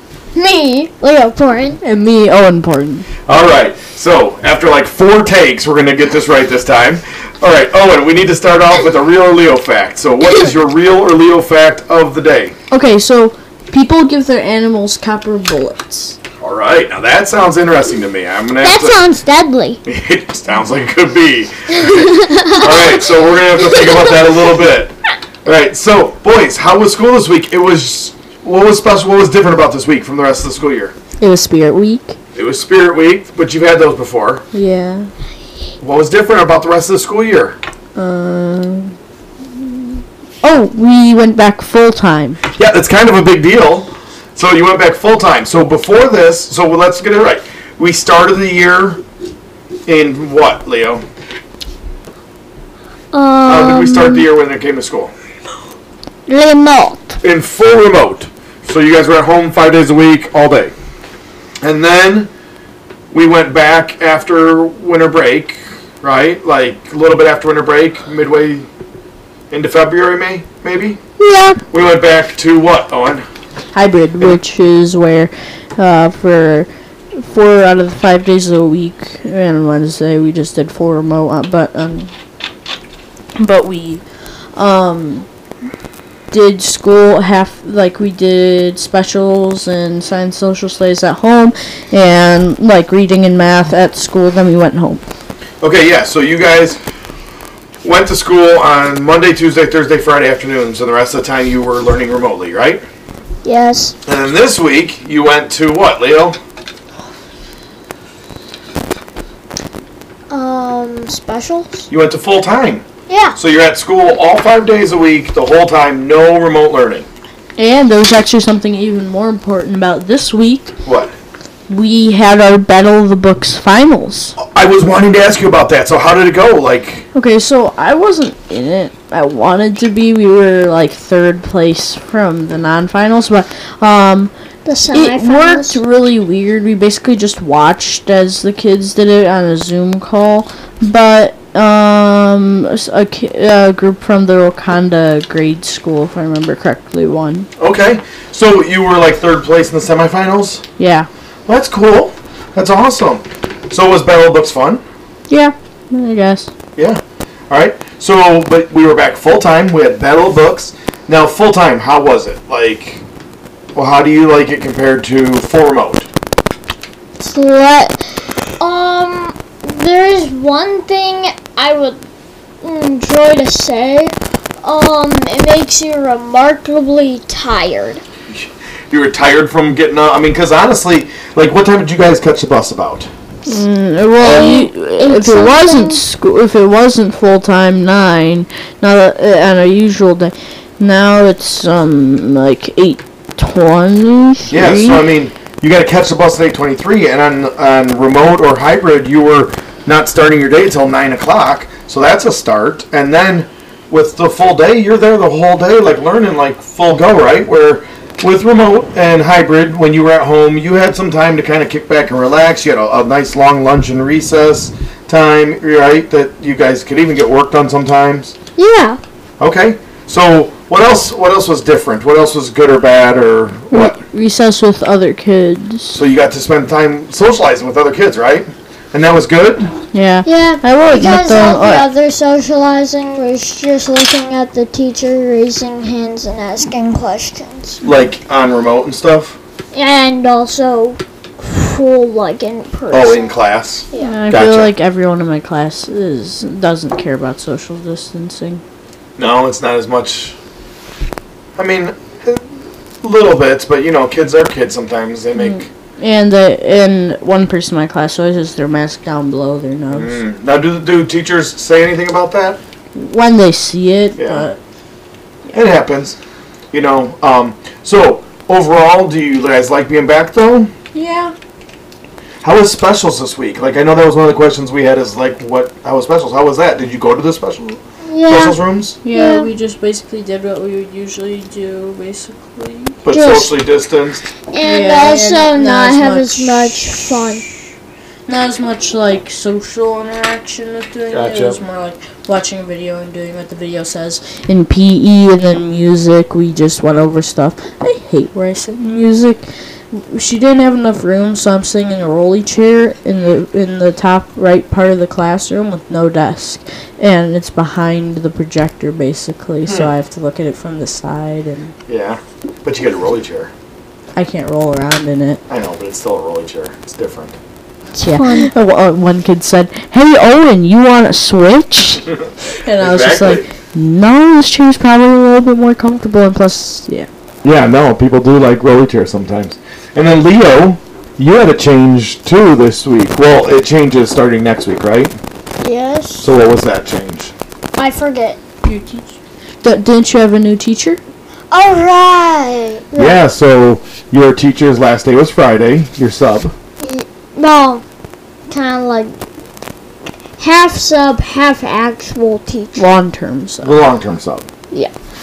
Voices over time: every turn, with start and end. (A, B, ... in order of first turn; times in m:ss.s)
0:00.3-0:01.8 A
0:01.8-0:03.1 B
0:03.2-0:12.5 C
0:12.7-0:16.2 B
0:16.4-0:19.0 C
0:18.6-0:19.8 A
0:19.8-0:24.9 C
0:21.9-0:24.4 A
0:25.4-0:30.9 C
0:31.2-0:32.2 B
0:32.3-0:34.4 C
0:34.5-0:35.1 B
0:35.8-0:37.6 C
0:38.0-0:38.9 B
0:40.4-0:42.4 B
0:42.5-0:49.0 C
0:49.9-0:51.0 C
0:53.1-0:54.3 A
0:53.4-0:55.1 C
0:56.3-0:57.2 A
0:57.2-1:00.7 C
1:01.6-1:02.3 C
1:03.1-1:08.7 C
1:09.5-1:11.0 C
1:11.2-1:11.6 B
1:11.7-1:13.2 C
1:13.7-1:22.1 B
1:23.4-1:24.0 B
1:24.5-1:25.3 B
1:26.3-1:35.0 B
1:35.6-1:36.8 C
1:37.8-1:42.8 C
1:43.4-1:43.9 A
1:44.0-1:46.4 C
1:50.3-1:51.8 A
1:51.9-1:52.8 C
1:53.1-1:53.4 A
1:53.4-1:57.1 C
1:57.6-2:00.7 B
2:00.8-2:01.1 C
2:01.7-2:04.4 B
2:04.4-2:07.0 C
2:07.1-2:14.3 B
2:14.6-2:15.8 A
2:14.9-2:27.5 B
2:27.6-2:30.6 C
2:30.8-2:31.1 B
2:31.5-2:34.8 C
2:35.3-2:36.5 B
2:36.8-2:43.0 C
2:43.7-2:46.1 C
2:47.2-2:52.0 A
2:52.6-2:58.0 A
2:58.3-3:03.1 C
3:03.4-3:15.0 B
3:04.2-3:06.0 A
3:14.5-3:38.3 C
3:38.6-3:39.0 A
3:39.4-3:44.0 C
3:43.7-3:46.0 B
3:45.9-3:49.7 C
3:49.9-3:51.9 B
3:50.2-3:57.8 A
3:57.8-3:59.4 C
3:59.7-4:03.4 A
4:02.9-4:04.7 C
4:03.9-4:04.2 A
4:04.0-4:08.6 B
4:09.2-4:10.4 C
4:11.6-4:12.4 C
4:13.0-4:15.7 C
4:15.4-4:20.2 B
4:19.9-4:22.6 C
4:22.9-4:24.6 B
4:24.2-4:24.5 C
4:25.5-4:26.2 C
4:26.7-4:30.7 C
4:30.9-4:31.3 B
4:32.4-4:39.0 C
4:38.0-4:38.6 A
4:39.0-4:43.0 B
4:39.1-4:39.5 A
4:43.0-4:44.3 C
4:43.1-4:43.5 A
4:44.5-4:47.4 A
4:44.6-4:46.9 B
4:48.3-5:11.7 B
4:51.1-4:51.6 C
5:09.6-5:09.9 C
5:11.9-5:13.5 C
5:14.1-5:15.4 B
5:15.5-5:17.4 C
5:18.0-5:18.5 A
5:18.0-5:27.1 B
5:22.8-5:23.4 C
5:27.4-5:35.1 C
5:35.6-5:36.3 A
5:36.2-5:37.3 C
5:37.8-5:38.4 A
5:38.6-5:41.0 B
5:41.5-5:43.2 A
5:43.0-5:46.5 C
5:46.8-5:47.8 A
5:48.5-5:49.2 A
5:50.4-5:52.8 A
5:52.8-5:53.8 B
5:53.6-5:54.4 C